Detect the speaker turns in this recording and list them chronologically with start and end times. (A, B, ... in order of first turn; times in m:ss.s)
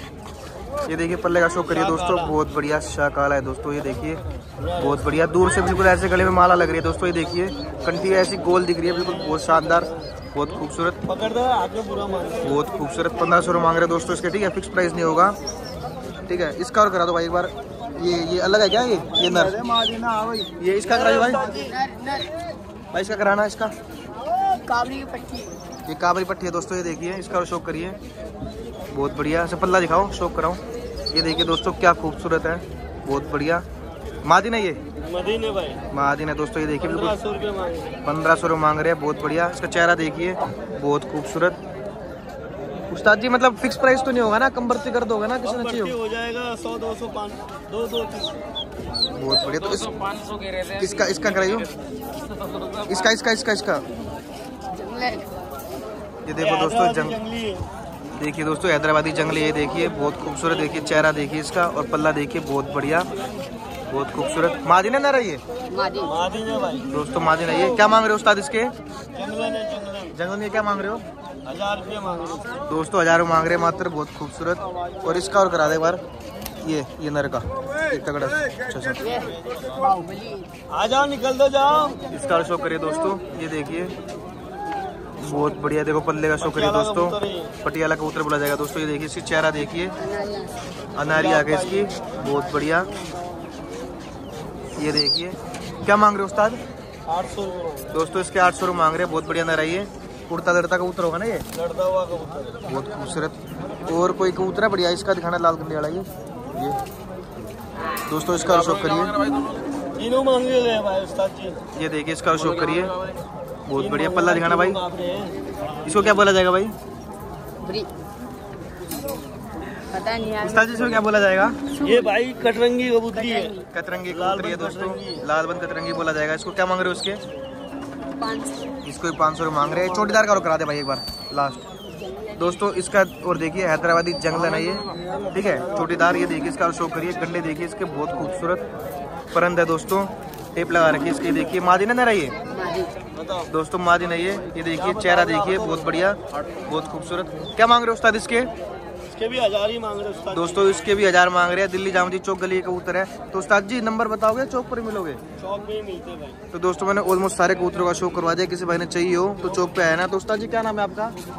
0:00.9-0:04.2 A
0:01.7-0:02.3 B
0:04.6-0:05.0 B
0:04.8-0:11.0 A
0:11.0-0:12.6 B
0:12.4-0:15.4 A
0:16.3-0:19.6 A
0:19.1-0:21.7 B
0:20.6-0:21.4 A
0:21.4-0:22.3 C
0:22.9-0:23.7 A
0:24.6-0:25.5 C
0:25.9-0:28.0 A
0:28.9-0:30.6 A
0:31.1-0:33.6 A
0:34.2-0:34.8 A
0:35.0-0:35.8 B
0:35.9-0:37.2 A
0:36.8-0:37.9 B
0:38.0-0:41.6 A
0:42.9-0:46.0 A
0:45.4-0:48.4 B
0:49.1-0:49.9 A
0:49.7-0:51.3 B
0:50.7-0:51.7 A
0:52.9-0:53.8 A
0:54.7-0:55.2 C
0:56.2-0:57.2 A
0:56.4-0:57.6 B
0:58.2-1:03.1 A
1:03.9-1:05.4 A
1:05.7-1:06.2 C
1:06.0-1:06.9 B
1:06.9-1:08.7 A
1:09.1-1:10.1 B
1:10.1-1:11.0 A
1:11.4-1:12.5 B
1:12.7-1:16.0 A
1:16.6-1:19.1 A
1:18.4-1:19.8 B
1:19.0-1:20.5 C
1:20.7-1:22.0 B
1:22.1-1:23.9 A
1:25.2-1:29.9 A
1:26.4-1:27.5 B
1:30.0-1:30.6 C
1:31.0-1:32.9 A
1:31.1-1:32.0 B
1:34.8-1:36.6 A
1:37.1-1:37.9 B
1:37.9-1:41.4 A
1:41.6-1:42.6 B
1:42.7-1:46.8 A
1:48.1-1:49.2 A
1:48.4-1:51.6 B
1:51.7-1:52.9 A
1:52.3-1:53.2 B
1:53.7-1:54.8 A
1:53.7-1:56.2 B
1:55.8-1:56.7 A
1:57.6-1:57.9 C
1:59.9-2:01.1 C
2:00.4-2:01.6 A
2:01.6-2:02.1 C
2:01.8-2:03.5 B
2:03.1-2:03.6 C
2:03.7-2:07.2 A
2:04.1-2:05.2 B
2:08.2-2:08.7 C
2:08.8-2:11.6 A
2:12.4-2:18.6 A
2:19.3-2:22.3 A
2:22.5-2:22.9 C
2:23.2-2:23.5 B
2:23.5-2:28.5 A
2:24.7-2:26.6 B
2:29.1-2:30.9 B
2:30.3-2:35.2 A
2:35.4-2:36.4 B
2:36.5-2:41.1 A